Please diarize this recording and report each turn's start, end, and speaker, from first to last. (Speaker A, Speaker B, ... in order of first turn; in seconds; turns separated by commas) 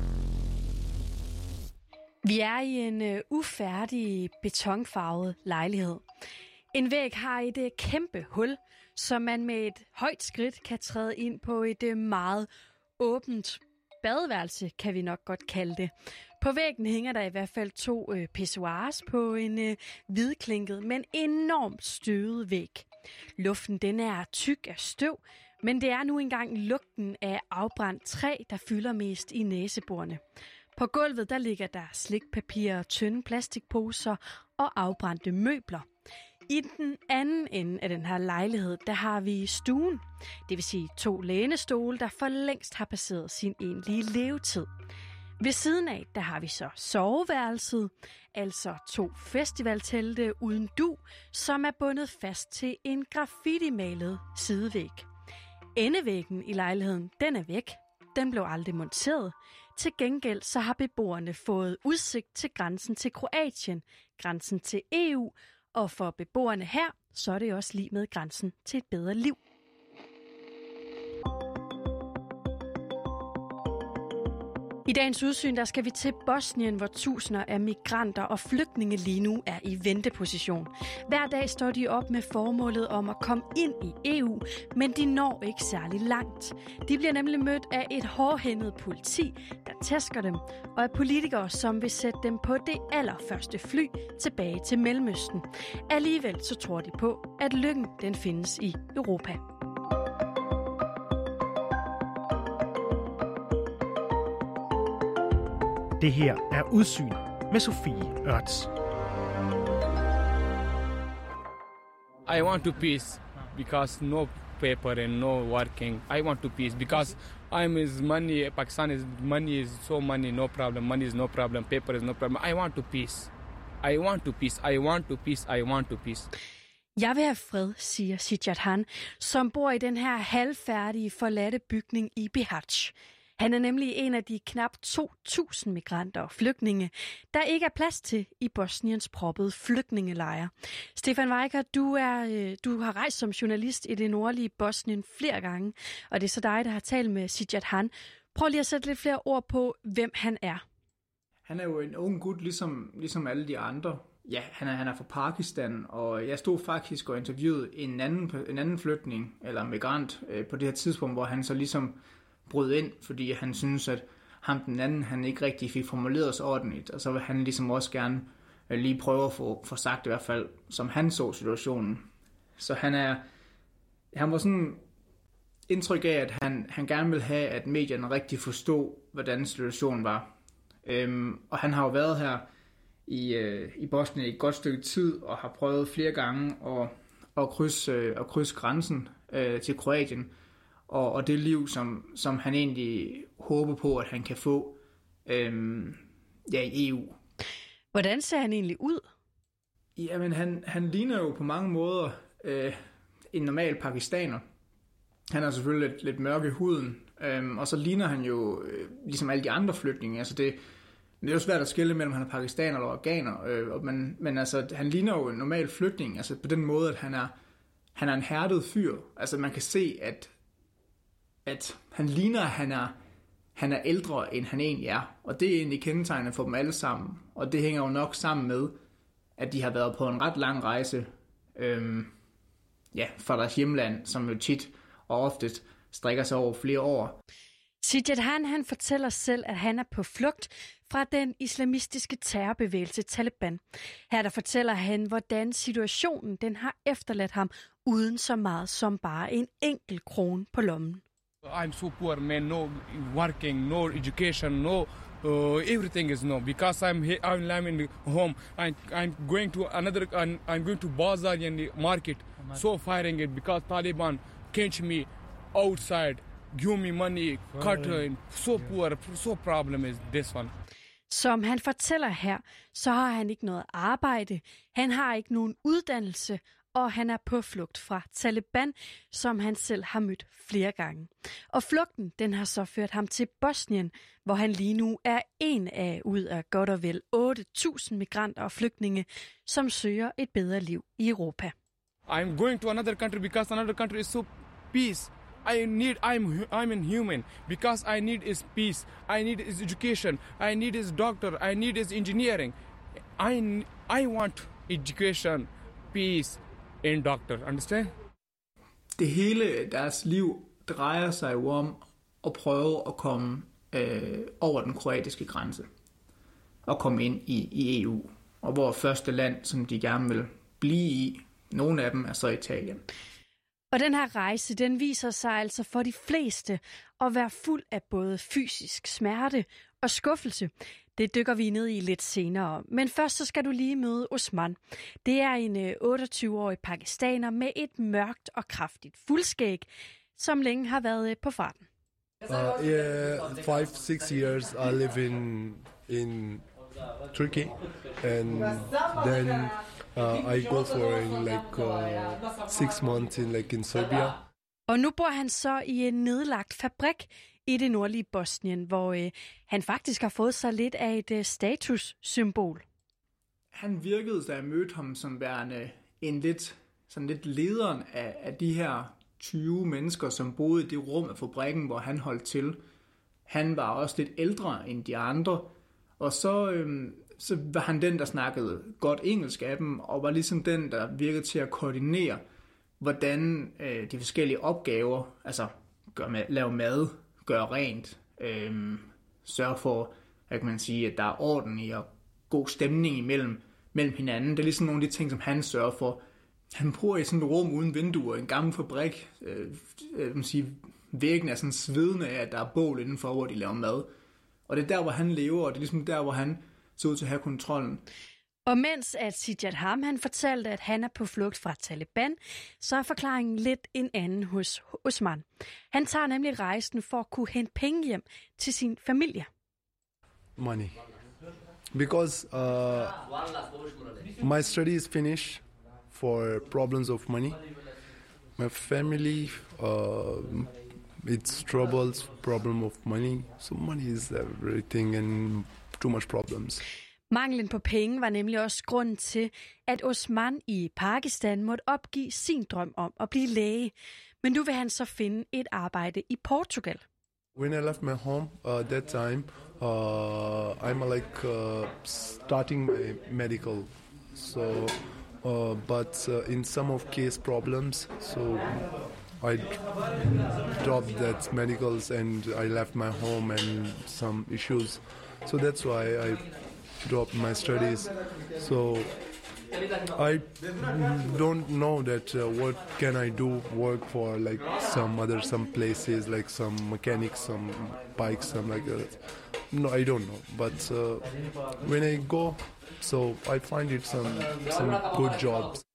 Speaker A: 2.2-6.0, Speaker A: 6.7-12.5, Speaker A: 13.0-22.9, Speaker A: 23.4-30.2, Speaker A: 30.8-35.9, Speaker A: 36.5-44.7, Speaker A: 45.4-55.1, Speaker A: 55.8-69.4, Speaker A: 74.9-99.4, Speaker B: 106.0-108.7, Speaker C: 112.3-123.3, Speaker C: 123.8-126.3, Speaker A: 127.0-150.6, Speaker D: 151.5-172.1, Speaker D: 172.6-173.2, Speaker D: 174.1-174.8, Speaker D: 175.7-180.3, Speaker D: 180.8-182.5, Speaker D: 183.1-190.3, Speaker D: 190.9-197.2, Speaker A: 197.9-199.1, Speaker D: 200.0-202.8, Speaker D: 203.3-204.4, Speaker D: 205.3-210.6, Speaker D: 211.2-217.3, Speaker D: 217.9-220.3, Speaker D: 221.5-223.0, Speaker D: 223.6-228.8, Speaker D: 229.4-232.1, Speaker D: 232.9-237.2, Speaker A: 237.8-251.0, Speaker C: 251.5-270.5, Speaker A: 271.1-291.5, Speaker C: 292.1-302.5, Speaker C: 303.2-307.9, Speaker D: 309.0-315.7, Speaker D: 316.7-322.9, Speaker A: 323.7-341.7, Speaker E: 342.3-346.4, Speaker E: 347.1-354.2, Speaker A: 354.7-362.6, Speaker D: 363.5-372.6, Speaker D: 373.3-382.2, Speaker D: 382.8-396.0, Speaker D: 396.6-403.9, Speaker D: 404.5-407.8, Speaker A: 408.5-419.3, Speaker E: 420.4-420.8, Speaker E: 421.7-423.0, Speaker E: 424.2-427.4, Speaker E: 428.4-436.6, Speaker A: 437.1-446.8, Speaker E: 447.4-458.6, Speaker E: 459.2-466.3, Speaker E: 466.8-468.9, Speaker E: 469.9-485.6